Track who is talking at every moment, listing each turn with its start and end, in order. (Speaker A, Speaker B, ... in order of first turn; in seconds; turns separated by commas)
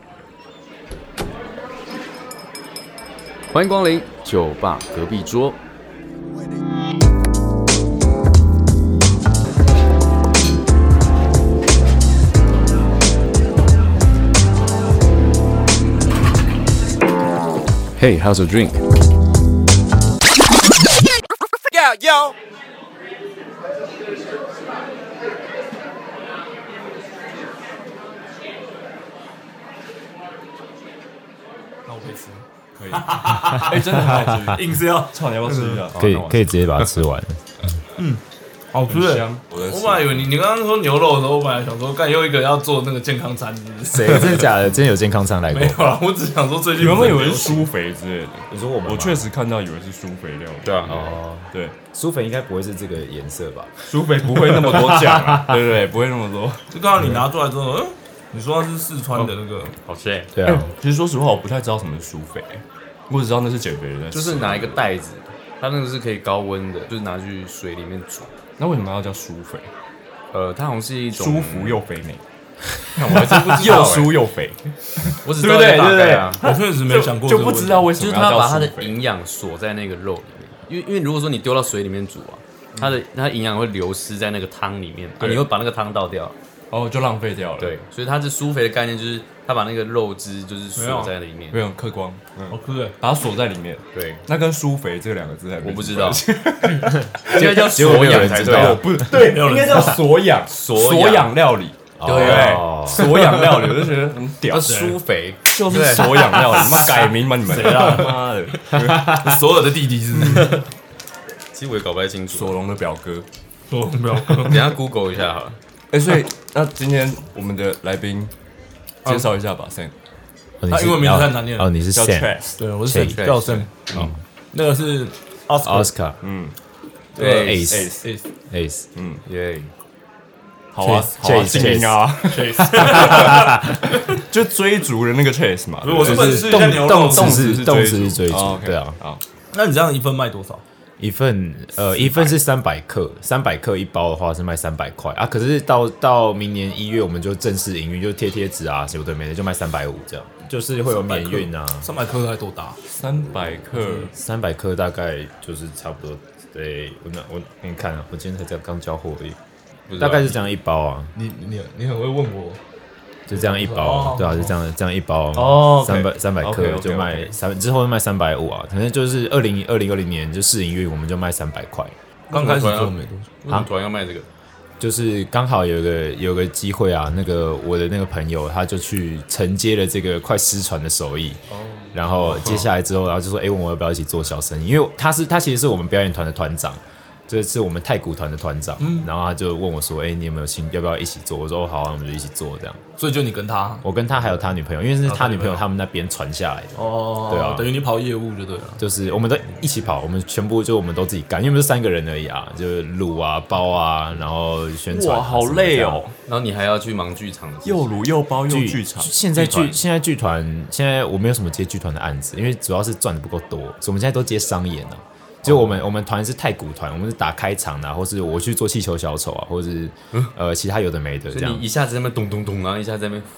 Speaker A: 3.5-5.6, Speaker A: 18.0-18.8, Speaker B: 31.9-35.9, Speaker C: 32.8-36.0, Speaker A: 35.9-36.8, Speaker D: 35.9-37.4, Speaker B: 38.0-44.6, Speaker C: 38.9-40.3, Speaker D: 43.9-45.8, Speaker B: 45.5-47.7, Speaker C: 46.7-51.8, Speaker D: 48.5-49.2, Speaker A: 50.6-51.5, Speaker D: 50.9-51.1, Speaker D: 51.9-53.7, Speaker C: 53.9-56.6, Speaker B: 56.7-59.7, Speaker A: 59.8-60.3, Speaker D: 60.3-60.7, Speaker C: 60.4-64.8, Speaker A: 64.1-68.3, Speaker C: 68.6-69.7, Speaker A: 70.3-71.8, Speaker C: 71.1-72.2, Speaker A: 72.9-74.2, Speaker C: 73.0-79.0, Speaker A: 75.2-76.4, Speaker B: 76.4-77.9, Speaker A: 77.9-86.3, Speaker C: 85.2-85.4, Speaker C: 86.7-87.7, Speaker A: 87.6-91.6, Speaker B: 90.8-91.1, Speaker C: 91.5-104.9, Speaker B: 92.5-93.0, Speaker A: 93.9-94.2, Speaker A: 95.6-99.0, Speaker D: 96.9-99.1, Speaker B: 98.5-100.0, Speaker A: 99.6-101.3, Speaker D: 102.0-103.1, Speaker A: 102.0-103.7, Speaker A: 104.5-106.9, Speaker B: 104.5-105.0, Speaker C: 105.5-109.4, Speaker B: 106.1-108.2, Speaker B: 108.8-110.6, Speaker C: 110.1-110.6, Speaker A: 111.5-112.5, Speaker C: 112.3-113.2, Speaker B: 113.7-114.7, Speaker A: 114.4-115.6, Speaker C: 115.9-118.3, Speaker C: 119.0-119.9, Speaker D: 120.6-122.3, Speaker B: 120.7-121.7, Speaker C: 121.9-122.5, Speaker B: 122.6-125.9, Speaker D: 122.8-123.2, Speaker A: 123.0-124.1, Speaker D: 125.6-126.2, Speaker C: 126.2-126.5, Speaker A: 127.2-127.7, Speaker B: 127.2-128.2, Speaker C: 127.2-128.1, Speaker D: 127.2-127.9, Speaker D: 128.5-128.8, Speaker C: 128.9-129.2, Speaker A: 129.2-129.7, Speaker C: 130.7-139.2, Speaker D: 130.8-133.8, Speaker B: 132.2-133.7, Speaker B: 135.8-137.6, Speaker D: 136.0-139.0, Speaker B: 139.5-140.6, Speaker D: 141.0-151.9, Speaker C: 141.9-142.3, Speaker B: 150.9-152.8, Speaker C: 152.9-154.1, Speaker D: 154.1-159.4, Speaker A: 159.9-160.3, Speaker D: 160.0-161.1, Speaker B: 161.1-162.6, Speaker D: 163.3-171.9, Speaker B: 163.3-164.5, Speaker C: 165.3-167.3, Speaker A: 172.3-174.2, Speaker B: 172.3-173.3, Speaker D: 174.8-181.4, Speaker A: 181.5-181.9, Speaker D: 181.9-192.8, Speaker C: 182.3-182.6, Speaker B: 188.8-189.1, Speaker B: 193.0-193.8, Speaker D: 193.8-197.7, Speaker B: 195.0-195.6, Speaker B: 196.7-198.8, Speaker D: 198.8-206.0, Speaker C: 204.9-206.1, Speaker A: 206.2-207.9, Speaker C: 207.6-209.7, Speaker D: 208.5-221.6, Speaker A: 221.3-223.3